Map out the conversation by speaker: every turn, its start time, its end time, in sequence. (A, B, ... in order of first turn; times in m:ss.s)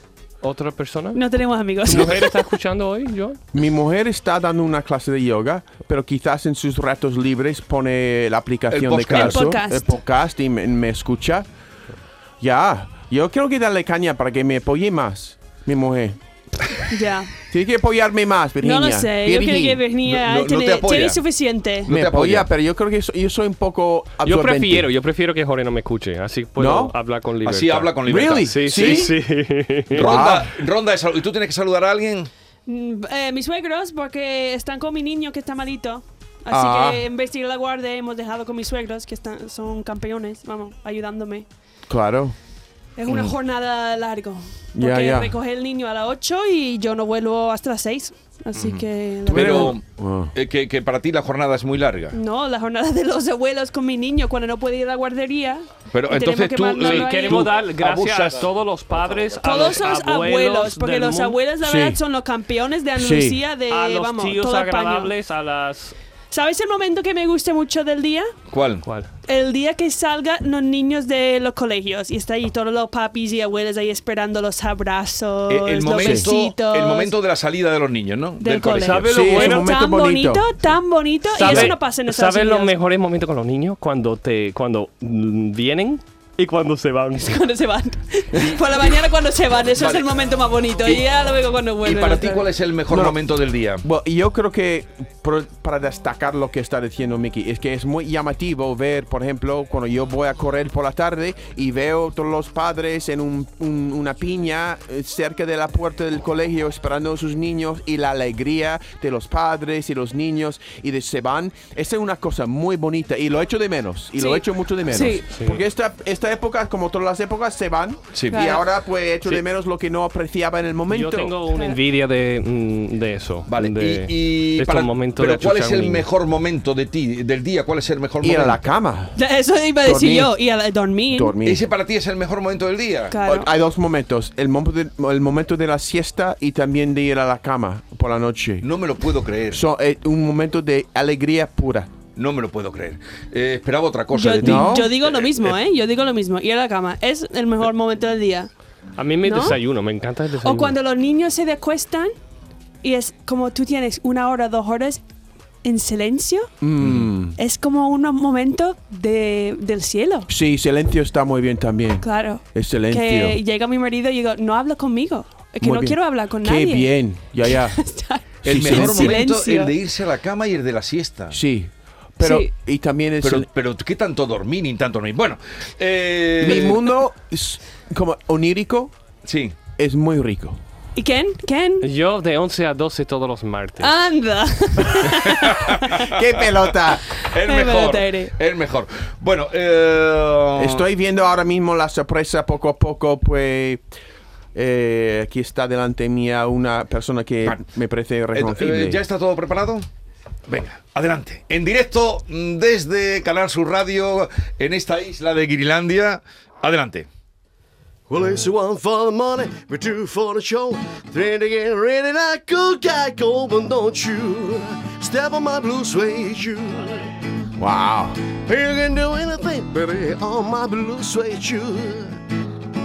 0:00.4-0:01.2 A
0:01.1-0:02.5 B
0:01.8-0:03.4 A
0:03.5-0:11.5 C
0:08.7-0:09.4 D
0:09.1-0:09.9 B
0:12.4-0:16.8 C
0:16.9-0:17.3 B
0:17.5-0:19.8 C
0:18.6-0:21.9 B
0:20.0-0:21.2 D
0:21.8-0:22.5 D
0:21.9-0:24.9 C
0:24.2-0:30.2 A
0:26.6-0:27.0 C
0:27.4-0:29.1 D
0:28.0-0:29.2 C
0:29.9-0:30.5 C
0:29.9-0:32.3 D
0:32.7-0:41.5 B
0:36.5-0:37.0 C
0:41.9-0:42.4 C
0:43.0-0:49.8 B
0:44.8-0:45.4 C
0:48.6-0:52.2 D
0:49.3-0:50.3 C
0:52.1-0:57.6 B
0:55.9-0:58.5 D
0:56.8-1:01.4 A
0:59.4-1:05.1 B
1:01.6-1:02.0 C
1:03.0-1:03.4 C
1:03.7-1:06.0 A
1:06.3-1:08.3 B
1:08.5-1:08.8 D
1:08.8-1:09.1 A
1:09.3-1:17.1 B
1:15.5-1:19.5 D
1:16.0-1:16.3 C
1:18.4-1:22.7 B
1:18.8-1:19.7 A
1:18.9-1:20.5 C
1:21.4-1:27.4 A
1:21.4-1:21.7 C
1:27.2-1:32.5 B
1:28.4-1:28.9 D
1:29.8-1:30.0 D
1:31.8-1:33.8 D
1:32.9-1:33.2 C
1:33.8-2:01.4 C
1:54.2-1:55.2 B
1:55.3-1:55.6 A
1:58.1-1:58.4 D
1:58.3-1:58.7 B
2:00.9-2:06.1 A
2:03.5-2:08.6 D
2:08.2-2:09.2 C
2:09.2-2:11.4 B
2:09.8-2:10.4 C
2:11.1-2:11.6 C
2:11.4-2:13.2 D
2:13.1-2:13.5 B
2:13.2-2:18.7 C
2:18.6-2:19.6 D
2:19.5-2:21.9 C
2:22.2-2:25.6 D
2:24.1-2:28.5 B
2:24.4-2:24.9 C
2:29.0-2:30.8 A
2:29.2-2:29.6 B
2:30.4-2:32.1 B
2:32.8-2:35.0 B
2:35.6-2:36.5 B
2:36.6-2:37.4 C
2:36.8-2:37.1 D
2:37.4-2:40.3 B
2:40.3-2:43.4 C
2:42.0-2:49.7 B
2:45.6-2:47.8 C
2:48.4-2:49.2 C
2:48.5-2:51.4 D
2:51.3-2:53.5 C
2:52.2-2:52.5 B
2:53.2-2:56.9 D
2:56.4-2:58.9 C
2:59.2-2:59.6 D
2:59.8-3:00.6 C
3:01.0-3:01.9 B
3:01.8-3:03.9 A
3:03.8-3:06.1 B
3:05.3-3:06.0 D
3:06.1-3:07.0 C
3:06.5-3:10.8 D
3:07.1-3:08.3 B
3:10.6-3:13.8 C
3:14.5-3:19.0 C
3:18.3-3:19.9 D
3:20.5-3:27.1 D
3:28.1-3:37.0 E
3:37.6-3:38.2 C
3:38.4-3:42.2 E